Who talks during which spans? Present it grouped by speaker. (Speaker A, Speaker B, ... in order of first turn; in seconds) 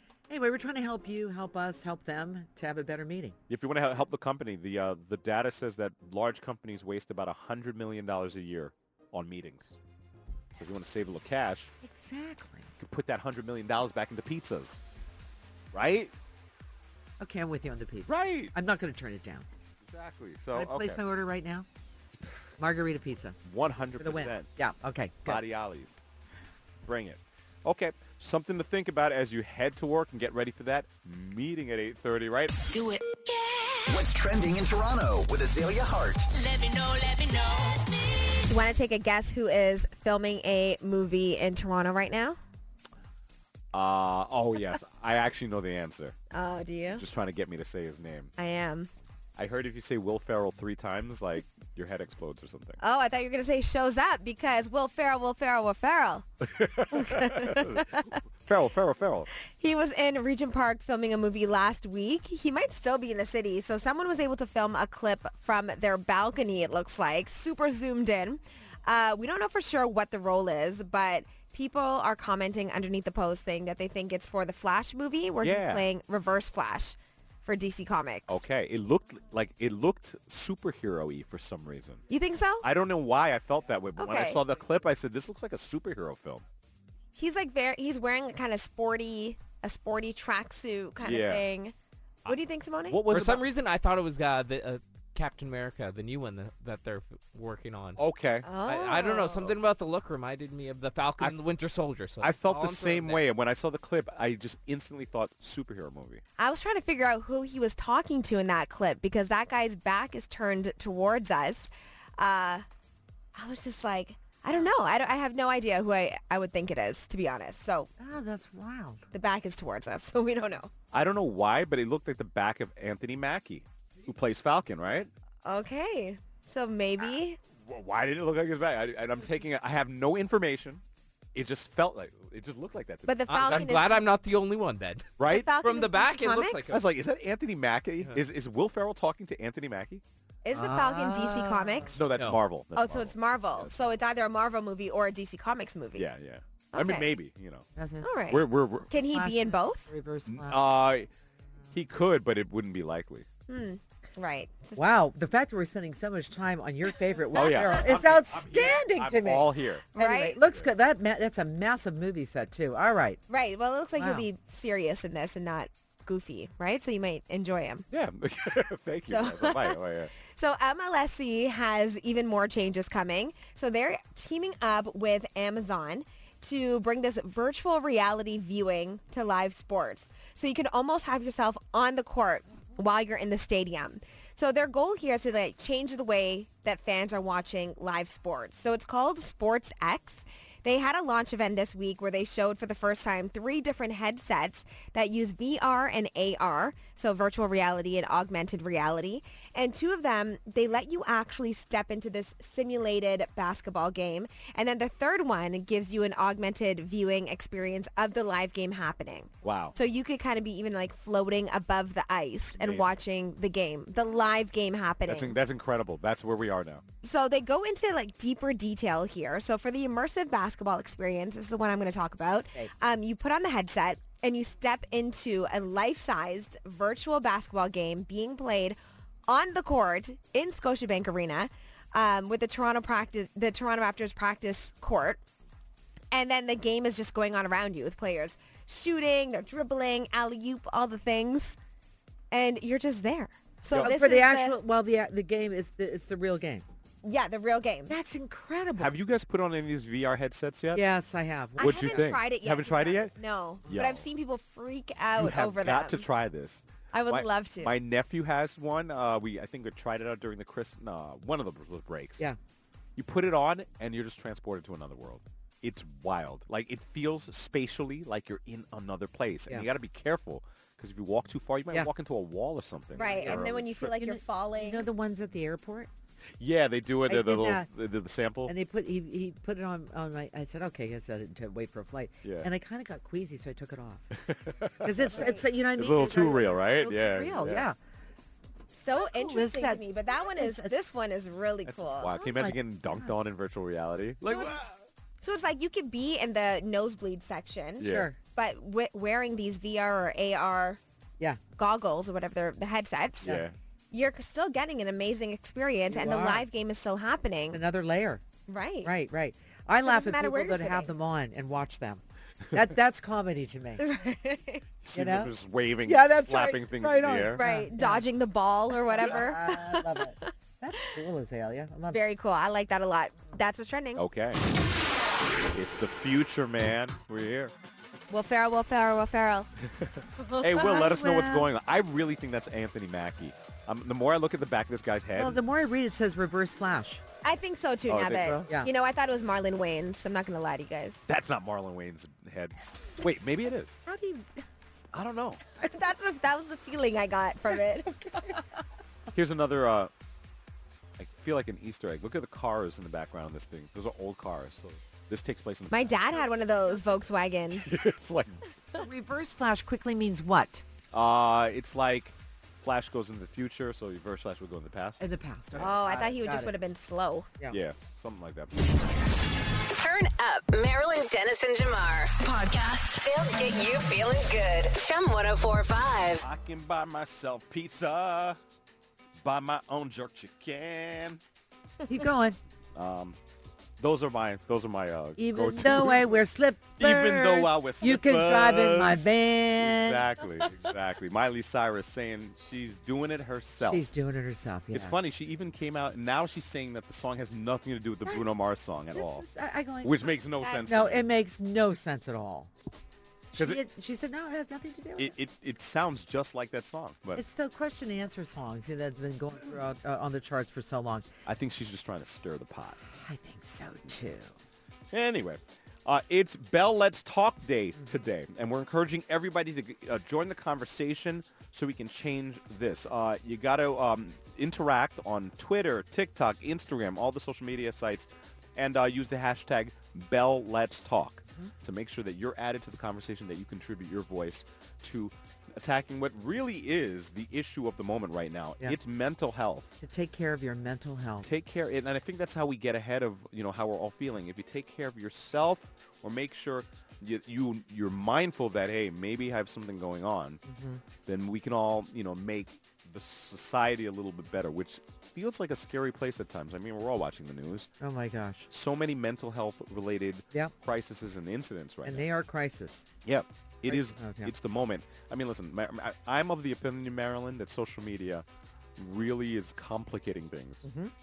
Speaker A: 0.3-3.4, 11.8-12.7, 17.2-19.5, 20.5-21.7, 22.6-23.4, 24.0-25.4, 118.0-119.0, 140.5-142.0, 147.8-148.1, 149.0-150.6, 154.8-163.2, 164.0-164.2, 243.8-246.6, 247.9-248.9, 250.7-252.1, 273.0-275.9, 277.1-277.7, 278.4-284.1, 284.8-287.8, 288.9-291.0, 292.2-293.1, 297.8-298.2, 305.9-306.4, 307.5-308.2, 308.8-313.8, 314.9-315.3, 315.9-318.0, 318.9-322.0, 330.6-331.5, 335.1-337.0, 343.9-344.4, 358.7-360.6, 365.0-366.5, 381.9-382.4, 385.2-390.0, 393.7-394.9, 398.9-402.5, 403.3-405.1, 407.1-411.1, 412.8-414.4, 439.8-441.3, 450.4-450.8, 457.8-458.5, 461.8-462.9, 463.6-464.3, 470.6-470.9
Speaker B: 3.5-9.8, 10.5-11.7, 12.8-14.8, 15.7-16.1, 18.1-18.5, 19.8-21.0, 23.4-24.5, 25.2-26.0, 26.8-32.5, 43.7-46.2, 46.9-48.3, 49.4-52.8, 56.4-59.3, 75.4-75.9, 78.3-82.0, 82.6-86.4, 91.0-91.5, 92.2-93.4, 98.0-98.5, 102.2-106.2, 120.9-125.1, 127.6-130.8, 131.3-133.8, 135.2-135.6, 136.7-140.0, 141.9-144.0, 145.9-147.7, 148.3-148.9, 150.3-151.1, 151.7-153.3, 157.3-159.8, 167.9-170.1, 209.4-209.8, 212.6-213.0, 215.1-216.8, 243.7-243.9, 248.8-250.8, 251.6-253.1, 253.7-254.1, 255.1-262.2, 262.9-273.9, 276.4-278.5, 282.2-282.5, 284.1-287.7, 291.6-294.8, 297.8-298.1, 303.2-303.5, 314.8-317.4, 323.9-324.4, 325.5-327.5, 329.8-335.4, 337.9-338.5, 341.1-343.8, 344.9-345.4, 349.1-349.9, 351.0-356.0, 357.5-358.4, 360.9-365.8, 367.5-368.5, 376.2-378.4, 379.2-381.2, 382.7-383.2, 383.8-386.2, 386.8-393.9, 394.7-399.3, 399.8-401.1, 403.3-403.6, 405.0-407.2, 411.2-412.8, 414.9-439.7, 441.2-450.4, 451.0-457.7, 458.5-462.1, 463.0-468.2, 468.8-470.6
Speaker C: 32.7-33.3, 36.5-37.7, 369.7-376.2
Speaker D: 33.9-36.3
Speaker E: 38.5-42.4, 46.3-47.0, 48.4-48.9, 52.8-56.3, 56.8-58.2, 59.5-78.4, 82.1-82.7, 84.0-84.4, 87.2-91.7, 92.2-93.0, 98.4-99.5, 106.4-112.6, 113.3-117.9, 119.1-120.7, 125.4-127.4, 133.1-134.1, 135.2-136.8, 140.4-142.1, 142.7-146.1, 146.7-147.1, 148.0-149.9, 153.5-154.8, 159.9-160.4, 163.3-167.8, 169.1-215.4, 217.0-235.2, 236.1-241.6, 242.3-244.6, 247.0-247.9, 251.6-256.0, 256.9-257.7, 272.9-274.9, 285.1-285.4, 288.7-292.1, 295.2-300.8, 301.6-303.4, 303.9-307.6, 308.5-308.9, 309.8-310.9, 313.8-314.6, 317.3-320.3, 321.9-324.0, 328.1-329.5, 330.2-330.9, 337.2-341.0, 345.6-348.4, 355.7-357.7, 365.5-367.3
Speaker F: 93.0-98.0, 98.6-103.2, 133.3-136.8, 142.1-142.4